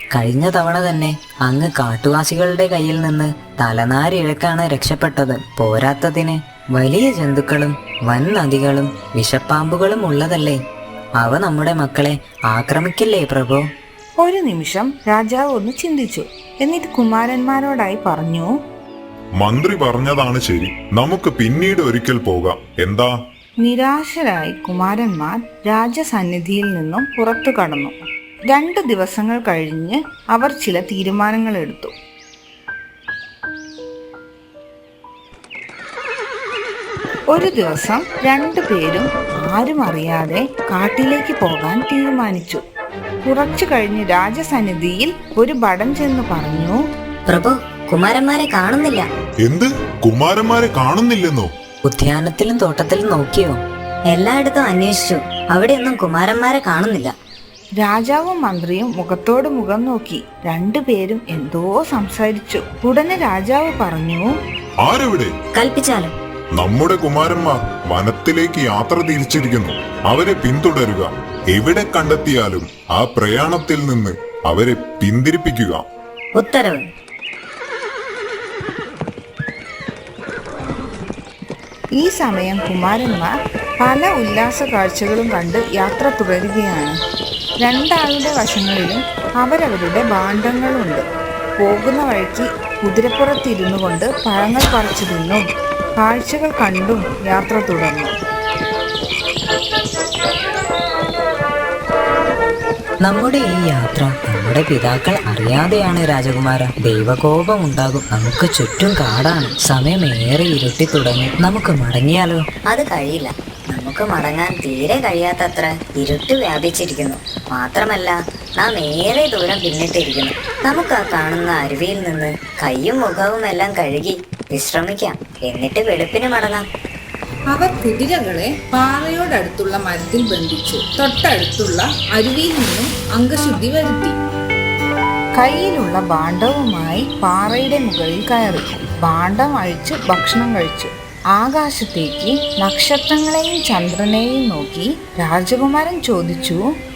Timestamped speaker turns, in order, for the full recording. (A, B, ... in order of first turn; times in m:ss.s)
0:00.1-0:10.6 A
0:11.2-0:13.6 A
0:14.2-0:18.5 B
0:19.4-0:23.1 C
0:23.6-0:28.0 B
0:28.5-0:31.9 B
0:37.3-0:42.6 B
0:43.2-0:46.8 B
0:47.3-0:49.0 D
0:49.4-0:51.5 C
0:51.8-0:53.6 A
0:54.2-0:57.1 D
0:55.8-0:56.6 A
0:57.8-1:04.3 B
1:04.8-1:05.3 C
1:05.6-1:06.1 D
1:06.6-1:15.8 C
1:16.4-1:16.8 D
1:22.0-1:27.0 B
1:27.6-1:31.0 B
1:31.6-1:35.4 B
1:36.0-1:38.2 B
1:43.0-1:52.5 A
1:52.7-1:53.3 D
1:53.8-1:58.0 D
1:54.2-1:55.5 A
1:56.2-1:57.0 A
1:57.6-1:58.1 A
1:58.6-2:04.1 D
1:58.8-2:00.2 A
2:00.7-2:06.6 A
2:04.6-2:06.4 D
2:07.5-2:14.2 B
2:15.4-2:26.6 B